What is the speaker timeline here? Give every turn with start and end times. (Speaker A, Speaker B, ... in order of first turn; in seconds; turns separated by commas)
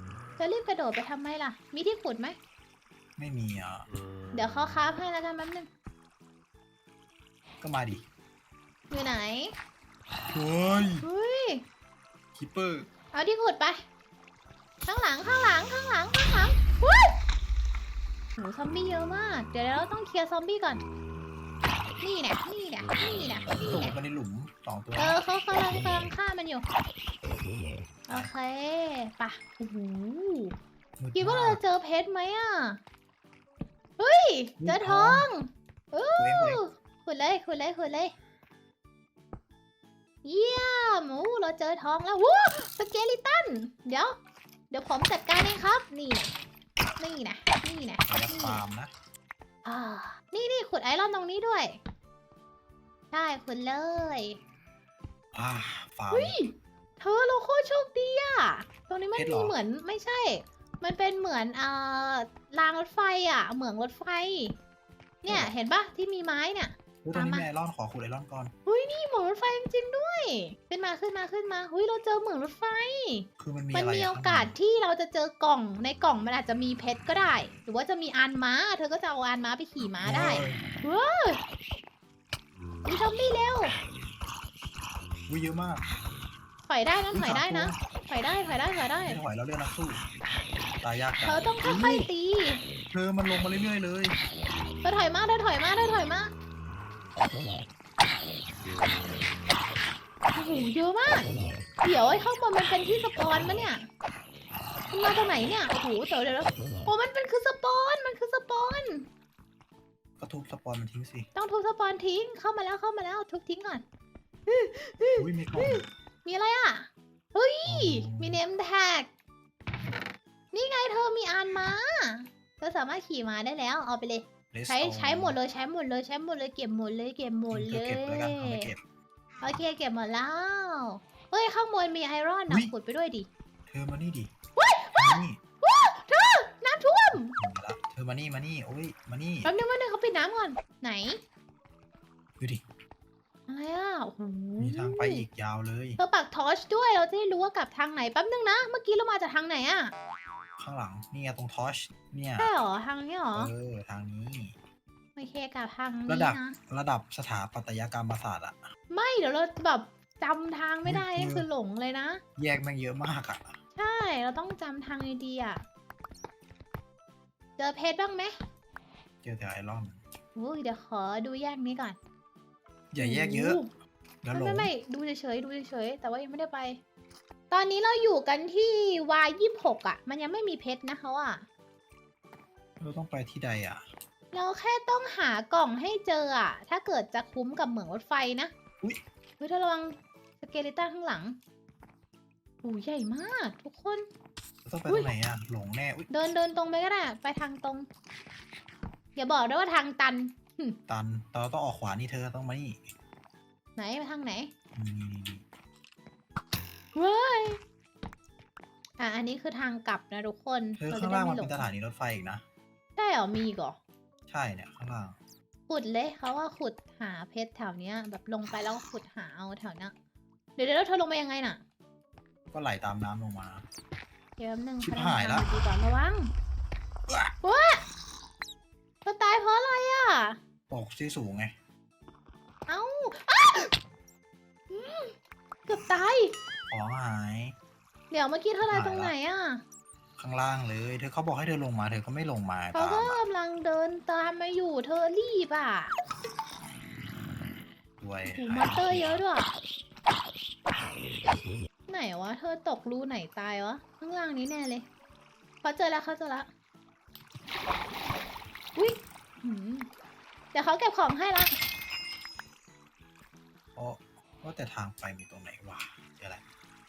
Speaker A: 0.4-2.4, Speaker B: 3.2-3.9, Speaker A: 4.3-5.7, Speaker B: 7.6-8.1, Speaker A: 8.9-9.6, Speaker B: 10.3-11.1, Speaker A: 11.0-11.7, Speaker B: 12.3-12.9, Speaker A: 13.1-13.8, Speaker A: 14.9-17.2, Speaker A: 18.4-20.8, Speaker A: 22.0-23.9, Speaker B: 23.6-25.2, Speaker A: 25.0-26.7, Speaker A: 28.1-30.6, Speaker B: 31.0-31.6, Speaker A: 31.1-32.8, Speaker A: 34.0-38.1, Speaker B: 34.6-35.3, Speaker B: 36.2-36.6, Speaker A: 40.2-44.2, Speaker A: 44.7-46.3, Speaker A: 47.0-48.6, Speaker B: 48.1-48.9, Speaker A: 49.6-51.8, Speaker A: 53.1-54.4, Speaker B: 55.3-56.4, Speaker A: 56.1-64.6, Speaker B: 59.1-59.6, Speaker A: 65.2-67.5, Speaker B: 65.3-65.5, Speaker B: 67.0-68.5, Speaker A: 68.7-81.4, Speaker B: 73.4-74.5, Speaker B: 80.0-80.6, Speaker A: 82.9-83.7, Speaker B: 85.3-85.9, Speaker A: 86.7-89.2, Speaker B: 87.1-87.8, Speaker B: 89.0-90.0, Speaker B: 90.8-92.1, Speaker A: 91.2-92.6, Speaker B: 92.9-94.2, Speaker A: 94.8-96.3, Speaker A: 100.3-103.9, Speaker A: 104.9-109.1, Speaker B: 110.2-111.3, Speaker A: 111.4-113.8, Speaker A: 114.5-119.1, Speaker B: 115.2-115.9, Speaker B: 117.7-118.4, Speaker A: 120.5-128.7, Speaker B: 124.5-125.4, Speaker B: 127.5-128.8, Speaker A: 129.4-133.3, Speaker B: 132.5-132.7, Speaker B: 133.7-134.3, Speaker A: 134.6-137.4, Speaker B: 135.0-135.4, Speaker B: 137.3-139.5, Speaker A: 139.4-141.2, Speaker A: 143.5-145.2, Speaker B: 144.6-146.0, Speaker A: 146.0-149.9, Speaker B: 150.6-152.5, Speaker A: 152.4-153.5, Speaker B: 153.3-154.6, Speaker A: 155.2-156.6, Speaker B: 156.1-158.6, Speaker A: 158.9-162.2, Speaker B: 160.8-161.5, Speaker B: 162.4-163.6, Speaker A: 163.8-165.6, Speaker A: 167.6-168.3, Speaker B: 169.2-170.0, Speaker A: 170.3-172.0, Speaker B: 172.9-173.6, Speaker A: 173.0-173.7, Speaker B: 174.2-174.7, Speaker A: 174.3-176.8, Speaker A: 177.5-181.5, Speaker B: 182.8-183.8, Speaker A: 184.3-188.5, Speaker A: 189.4-191.4, Speaker A: 192.6-194.1, Speaker B: 194.7-196.1, Speaker A: 196.1-197.9, Speaker A: 199.2-200.8, Speaker B: 200.9-202.8, Speaker A: 203.8-204.5, Speaker B: 204.8-205.4, Speaker A: 207.0-207.6, Speaker A: 209.0-211.7, Speaker B: 210.8-212.4, Speaker A: 213.0-213.8, Speaker B: 214.3-215.2, Speaker A: 215.7-219.9, Speaker A: 220.6-221.6, Speaker B: 222.5-223.7, Speaker A: 224.4-226.3, Speaker B: 224.8-225.5, Speaker B: 227.1-227.3, Speaker A: 227.4-227.8, Speaker A: 229.1-230.4, Speaker B: 230.7-231.5, Speaker A: 232.7-233.7, Speaker A: 234.7-235.1, Speaker A: 235.7-236.3, Speaker B: 236.7-237.6, Speaker A: 238.1-239.6, Speaker B: 238.7-239.1, Speaker B: 240.2-243.2, Speaker A: 242.7-245.9, Speaker B: 248.0-249.2, Speaker A: 248.2-249.5, Speaker A: 251.9-254.9, Speaker A: 255.6-256.5, Speaker A: 258.8-259.9, Speaker A: 260.5-261.6, Speaker B: 263.8-266.4